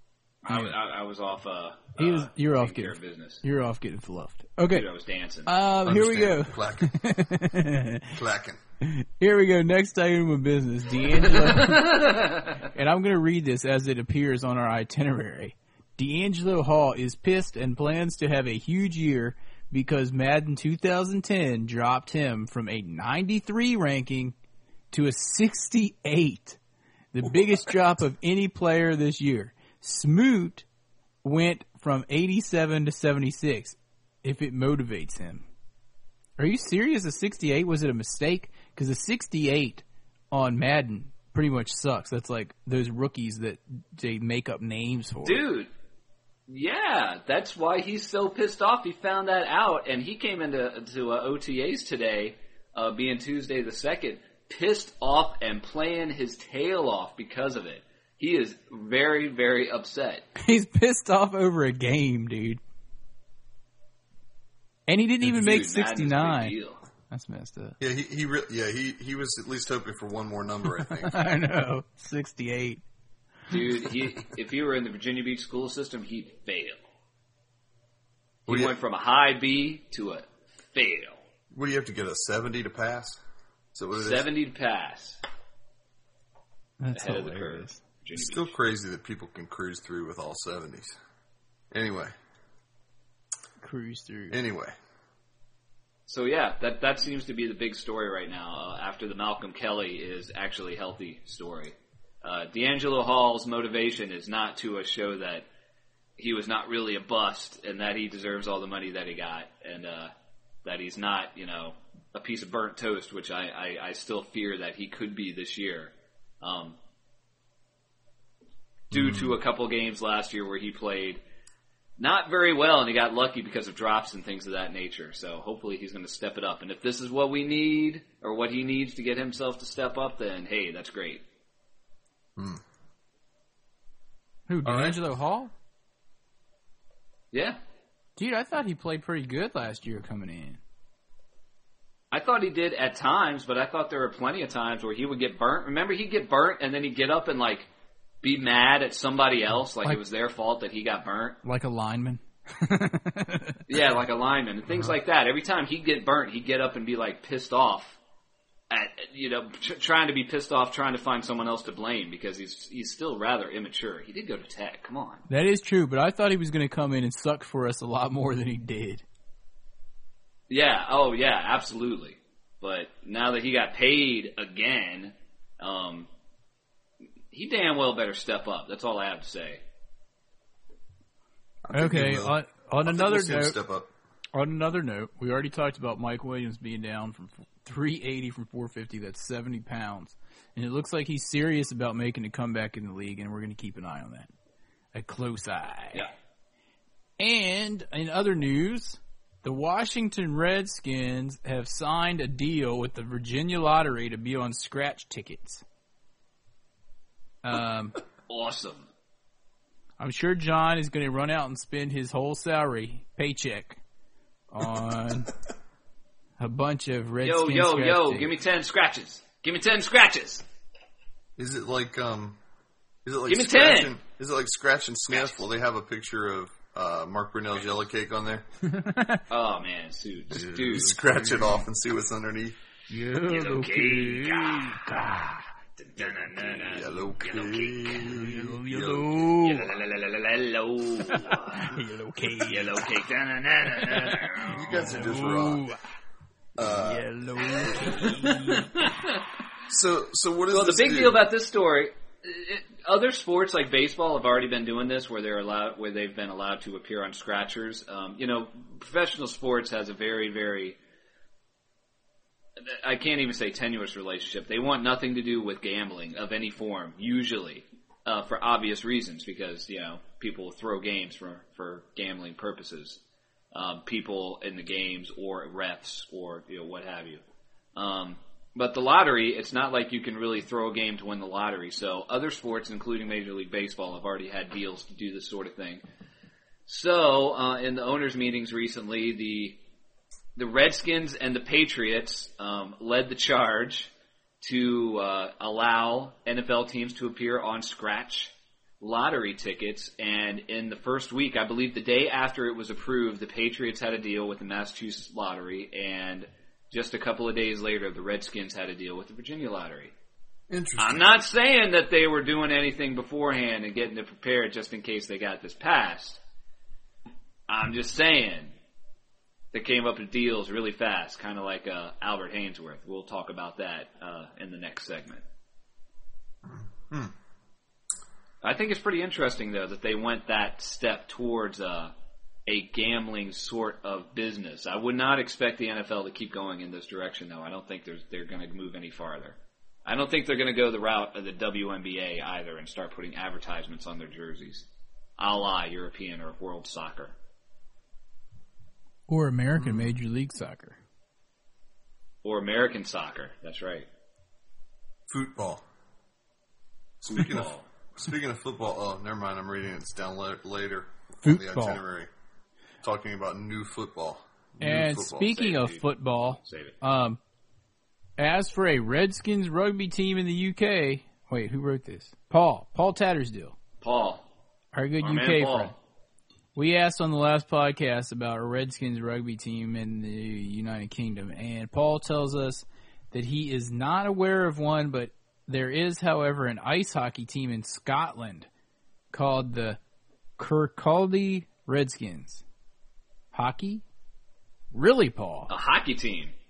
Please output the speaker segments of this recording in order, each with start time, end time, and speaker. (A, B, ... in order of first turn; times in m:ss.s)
0:00.4-0:03.4 A
0:02.0-0:04.8 B
0:04.7-0:05.5 A
0:05.4-0:08.2 B
0:05.8-0:06.9 C
0:08.1-0:08.6 C
0:08.8-0:24.3 B
0:11.4-0:12.6 A
0:24.9-0:26.6 B
0:27.1-0:30.6 B
0:31.2-0:35.4 B
0:36.4-0:45.4 B
0:45.2-0:45.7 A
0:46.5-1:00.2 A
1:00.4-1:02.6 B
1:04.9-1:06.5 B
1:05.3-1:06.8 A
1:07.1-1:07.8 B
1:07.8-1:11.2 C
1:10.9-1:12.8 B
1:13.5-1:16.8 A
1:18.4-1:21.2 A
1:18.5-1:18.7 C
1:21.5-1:23.2 C
1:23.7-1:24.3 C
1:23.9-1:25.2 A
1:26.8-1:27.8 B
1:26.9-1:28.5 A
1:28.2-1:30.9 C
1:31.7-1:32.1 C
1:33.6-1:34.4 B
1:34.3-1:34.7 C
1:36.1-1:45.4 A
1:46.2-1:50.1 A
1:50.6-1:56.8 A
1:58.9-1:59.4 C
1:58.9-2:01.2 A
2:02.0-2:11.2 A
2:12.4-2:12.6 C
2:14.5-2:15.5 B
2:14.6-2:15.0 C
2:17.3-2:17.6 A
2:18.2-2:20.6 B
2:22.1-2:27.7 A
2:28.2-2:31.4 A
2:31.4-2:33.6 B
2:33.7-2:38.0 A
2:38.7-2:45.2 A
2:45.3-2:49.0 B
2:50.5-2:56.1 A
2:57.3-2:59.6 A
3:01.6-3:03.9 C
3:01.7-3:03.6 B
3:04.3-3:14.3 B
3:14.9-3:16.1 B
3:17.2-3:25.6 B
3:27.4-3:28.0 B
3:28.3-3:28.9 A
3:30.0-3:33.8 B
3:34.5-3:35.3 B
3:36.4-3:38.3 B
3:37.2-3:40.4 A
3:41.4-3:42.4 C
3:43.0-3:48.4 C
3:43.3-3:44.0 A
3:45.1-3:45.4 A
3:48.6-3:49.2 B
3:49.3-3:51.0 A
3:50.3-3:52.6 C
3:51.0-3:51.6 B
3:52.9-3:55.4 B
3:53.3-3:54.8 A
3:55.8-3:58.1 A
3:56.0-3:59.3 C
3:58.1-3:59.7 B
3:59.4-4:01.7 A
4:01.1-4:02.9 B
4:02.4-4:04.7 A
4:03.7-4:05.8 B
4:04.5-4:05.7 C
4:06.6-4:08.1 C
4:06.6-4:08.9 B
4:08.0-4:09.2 A
4:09.7-4:11.2 C
4:10.5-4:20.8 A
4:22.6-4:33.0 A
4:33.5-4:37.2 A
4:37.8-4:45.8 A
4:46.7-4:49.6 A
4:50.4-5:09.9 A
5:10.5-5:11.1 C
5:10.8-5:16.2 A
5:17.5-5:18.5 A
5:19.5-5:25.2 A
5:26.4-5:27.1 C
5:28.4-5:31.9 A
5:32.5-5:44.7 A
5:45.2-5:47.1 A
5:49.1-5:50.8 B
5:49.6-5:49.9 C
5:52.2-5:53.9 A
5:55.1-5:55.6 C
5:57.0-6:02.1 C
5:57.0-5:57.6 A
6:01.2-6:01.8 B
6:02.8-6:05.3 C
6:04.6-6:07.2 B
6:05.2-6:05.8 A
6:06.4-6:06.8 A
6:08.2-6:13.6 B
6:13.8-6:14.2 A
6:14.7-6:15.7 B
6:15.0-6:15.8 A
6:16.5-6:28.5 B
6:29.1-6:29.8 B
6:30.4-6:32.4 B
6:33.3-6:33.8 B
6:34.7-6:35.5 B
6:35.5-6:36.3 A